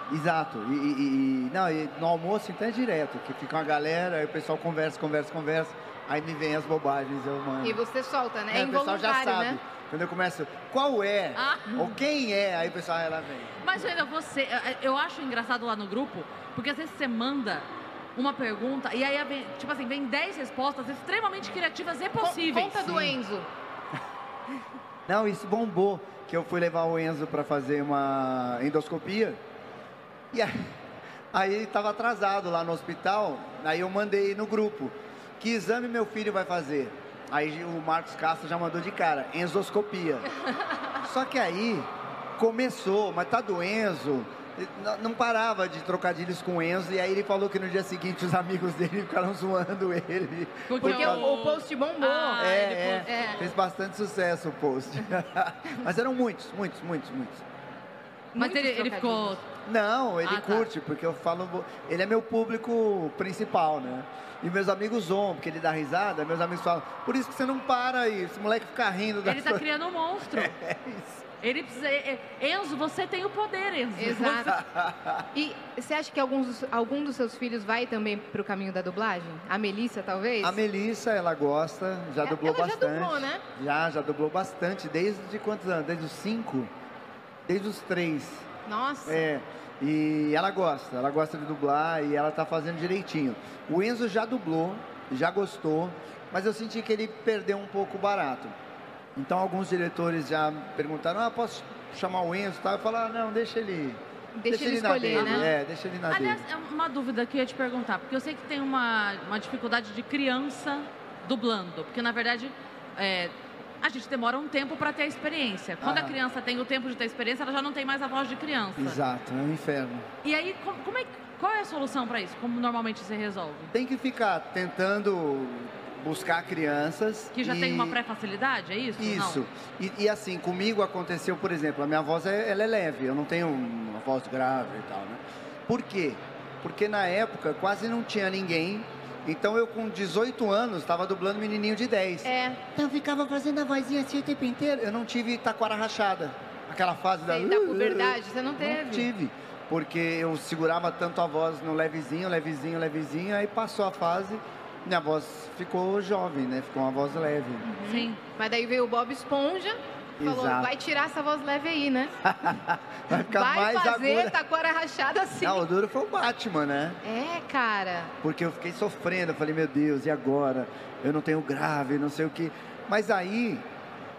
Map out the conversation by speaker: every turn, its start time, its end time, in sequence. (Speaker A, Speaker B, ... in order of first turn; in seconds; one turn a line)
Speaker A: 0.1-7.8
Speaker B: 7.6-9.6
Speaker A: 8.5-13.6
Speaker C: 11.4-12.0
Speaker C: 13.6-23.1
Speaker B: 22.2-23.5
Speaker A: 25.1-29.4
Speaker A: 30.3-30.7
Speaker A: 31.3-40.3
Speaker A: 41.0-51.3
Speaker C: 50.7-53.3
Speaker B: 50.8-52.4
Speaker A: 52.4-57.5
Speaker B: 53.0-53.4
Speaker B: 58.3-59.4
Speaker C: 58.4-59.5
Speaker A: 59.7-69.6
Speaker C: 60.2-60.7
Speaker C: 69.2-70.6
Speaker A: 70.4-71.2
Speaker C: 71.4-74.6
Speaker B: 74.0-74.6
Speaker A: 74.5-75.2
Speaker B: 75.3-80.6
Speaker A: 80.4-86.7
Speaker B: 82.2-83.4
Speaker A: 87.5-88.5
Speaker B: 88.7-89.2
Speaker A: 89.1-98.5
Speaker A: 99.2-106.5
Speaker B: 104.3-105.5
Speaker C: 105.2-105.5
Speaker C: 106.1-119.0
Speaker A: 115.8-116.2
Speaker A: 118.8-120.1
Speaker C: 120.2-123.7
Speaker A: 123.7-128.0
Speaker C: 127.3-129.4
Speaker A: 129.0-157.7
Speaker B: 142.2-142.6
Speaker B: 147.3-149.1
Speaker B: 157.6-162.1
Speaker C: 157.8-158.2
Speaker A: 160.2-160.7
Speaker A: 162.2-164.3
Speaker B: 163.3-165.7
Speaker A: 165.4-167.0
Speaker B: 167.0-168.1
Speaker A: 168.2-173.7